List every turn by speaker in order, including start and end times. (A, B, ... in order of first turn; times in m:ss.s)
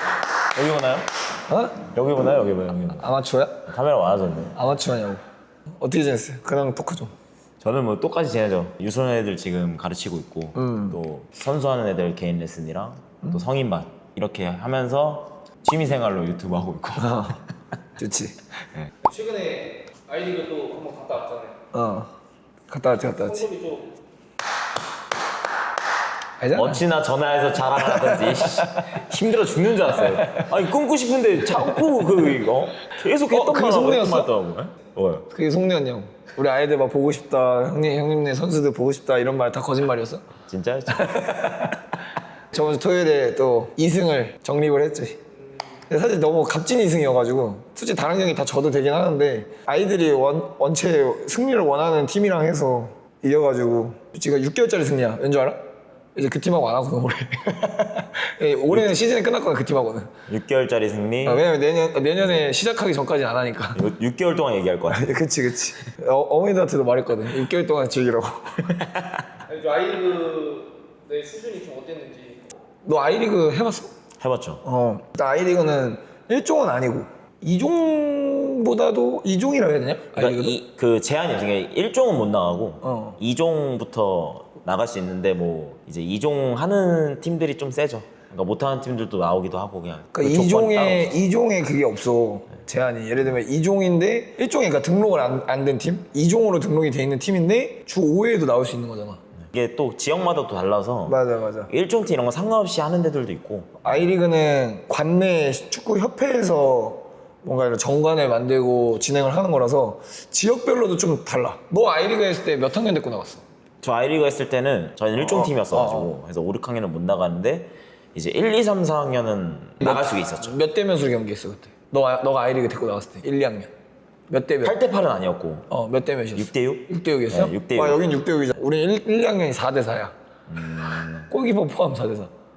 0:00.5-0:01.1 A
0:01.5-0:01.8 B
0:01.8-0:03.1 A
0:03.0-0:03.6 B
0:03.7-0:04.6 A
0:04.5-0:05.2 B
0:05.8-0:07.1 B
0:07.6-0:17.4 A
0:10.5-0:11.0 B
0:17.0-0:17.4 B
0:18.0-0:18.4 B
0:19.0-0:21.6 C
0:21.7-0:22.1 B
0:22.7-0:23.5 B
0:23.1-0:24.0 C
0:26.4-0:26.8 B
0:26.5-0:35.2 A
0:27.8-0:29.0 B
0:30.0-0:30.5 B
0:33.2-0:34.3 B
0:35.3-0:40.2 B
0:40.5-0:41.4 A
0:40.9-0:41.8 B
0:42.5-0:45.2 B
0:45.9-0:55.6 B
0:56.1-1:00.1 B
1:00.3-1:01.4 A
1:01.2-1:03.8 B
1:03.7-1:05.1 A
1:04.9-1:08.8 B
1:09.5-1:12.5 C
1:12.8-1:13.9 B
1:14.2-1:14.6 A
1:14.6-1:20.6 B
1:20.2-1:31.1 A
1:22.8-1:23.2 B
1:30.1-1:39.2 B
1:39.5-1:44.1 A
1:41.0-1:41.7 B
1:43.8-1:53.4 B
1:53.8-2:00.6 A
1:55.2-1:56.1 B
1:59.8-2:03.7 B
2:04.3-2:04.8 B
2:04.6-2:05.7 A
2:05.7-2:10.1 B
2:06.3-2:08.0 A
2:10.5-2:11.3 A
2:11.3-2:12.3 B